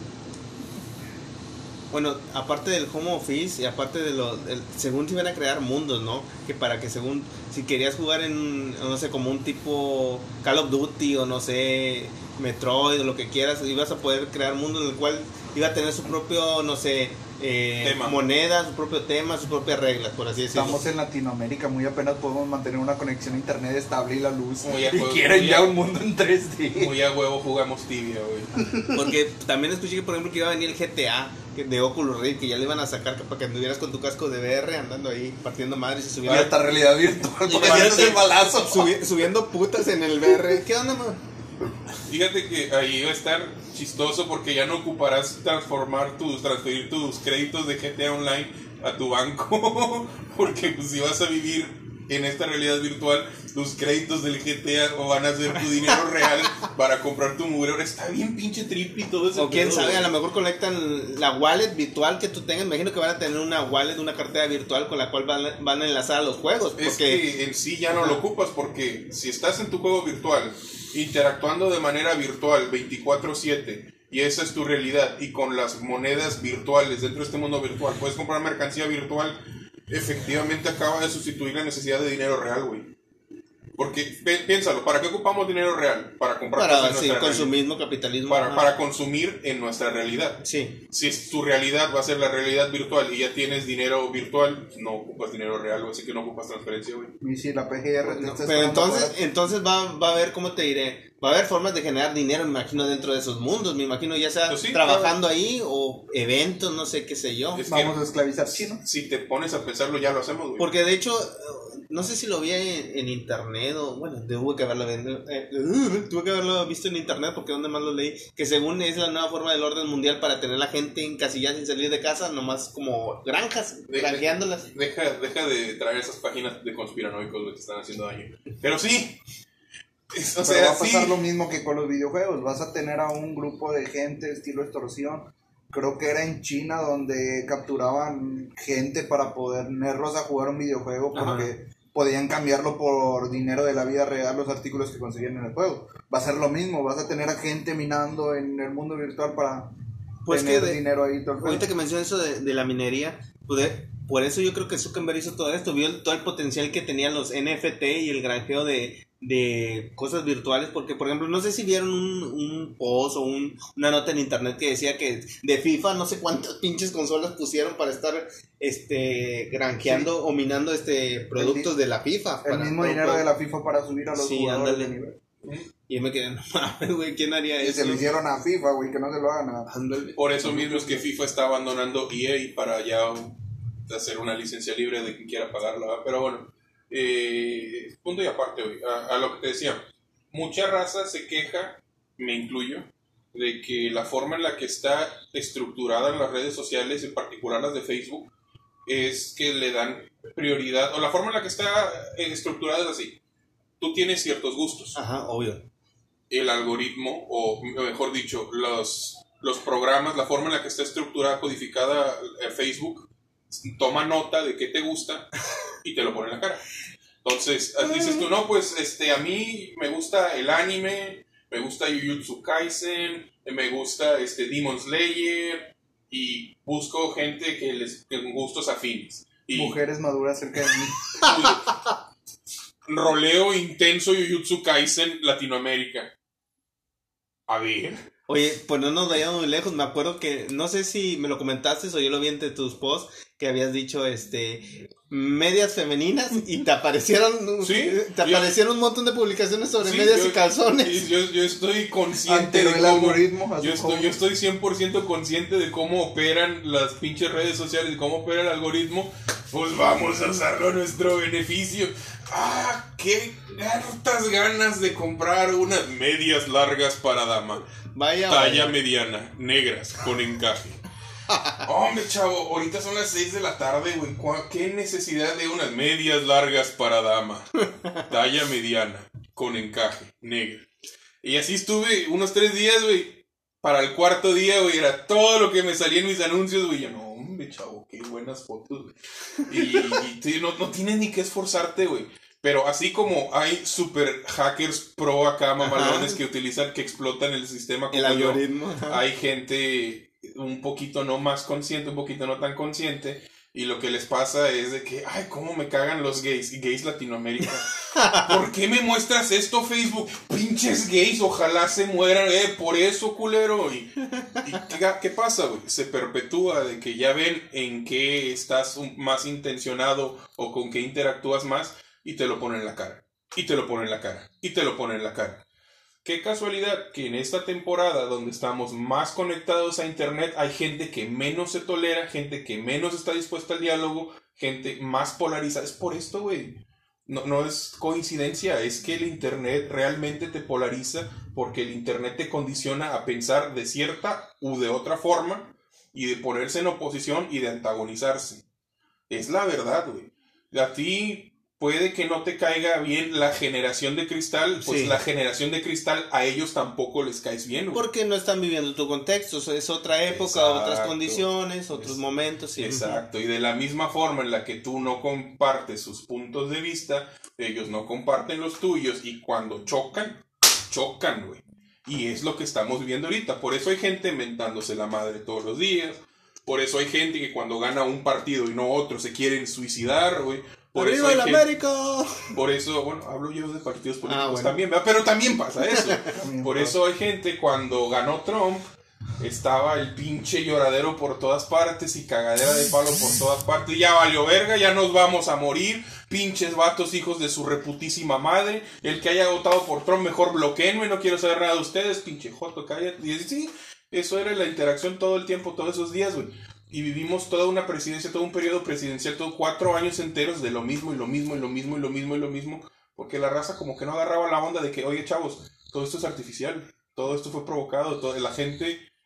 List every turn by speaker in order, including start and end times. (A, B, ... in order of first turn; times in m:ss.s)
0:01.9-0:20.8 A
0:17.8-0:18.2 B
0:20.5-0:26.9 C
0:24.6-0:25.8 B
0:26.7-0:28.5 B
0:28.7-0:29.0 C
0:28.9-0:36.5 A
0:36.2-0:39.0 C
0:37.5-0:38.3 B
0:37.5-0:41.2 A
0:42.0-1:00.1 B
0:59.3-1:07.2 A
1:06.8-1:19.4 B
1:07.9-1:08.2 A
1:19.9-1:22.9 B
1:23.8-1:27.5 B
1:26.6-1:28.7 A
1:28.3-1:37.1 B
1:30.4-1:30.8 A
1:37.2-1:39.2 C
1:38.0-1:47.6 A
1:44.5-1:45.2 B
1:47.5-1:48.0 B
1:47.7-1:48.8 C
1:48.5-1:50.7 B
1:50.6-2:04.7 A
2:03.9-2:09.2 B
2:10.1-2:11.2 B
2:10.4-2:29.7 C
2:21.1-2:21.5 A
2:30.2-2:30.8 A
2:30.3-2:31.7 C
2:31.4-2:53.2 A
2:49.8-2:50.1 C
2:51.4-2:51.7 C
2:52.4-2:55.2 C
2:54.2-2:54.9 A
2:55.4-2:55.7 B
2:55.9-2:58.2 A
2:57.6-2:59.7 C
2:59.7-3:00.9 A
3:00.2-3:03.4 B
3:03.9-3:18.3 B
3:18.8-3:23.2 B
3:23.8-3:25.0 B
3:24.9-3:25.6 A
3:26.3-3:36.6 B
3:37.2-3:49.8 B
3:49.5-3:51.3 C
3:51.2-3:51.6 B
3:52.9-3:56.1 B
3:57.5-3:58.0 B
3:58.3-4:11.0 A
4:07.6-4:08.5 B
4:09.8-4:27.6 B
4:12.2-4:14.1 C
4:27.9-4:28.8 A
4:28.3-4:30.8 B
4:31.3-4:31.6 A
4:31.6-4:40.6 B
4:41.2-4:48.9 B
4:49.4-5:25.4 B
4:55.6-4:56.2 A
4:57.9-4:59.0 A
5:07.9-5:08.2 A
5:26.0-5:48.4 B
5:49.1-5:57.8 B
5:54.6-5:55.0 A
5:57.7-6:03.0 A
6:00.1-6:02.0 B
6:02.6-6:21.5 B
6:20.7-6:22.3 A
6:22.3-6:28.7 B
6:24.0-6:24.6 A
6:25.6-6:26.1 A
6:26.1-6:26.8 C
6:29.2-6:58.8 B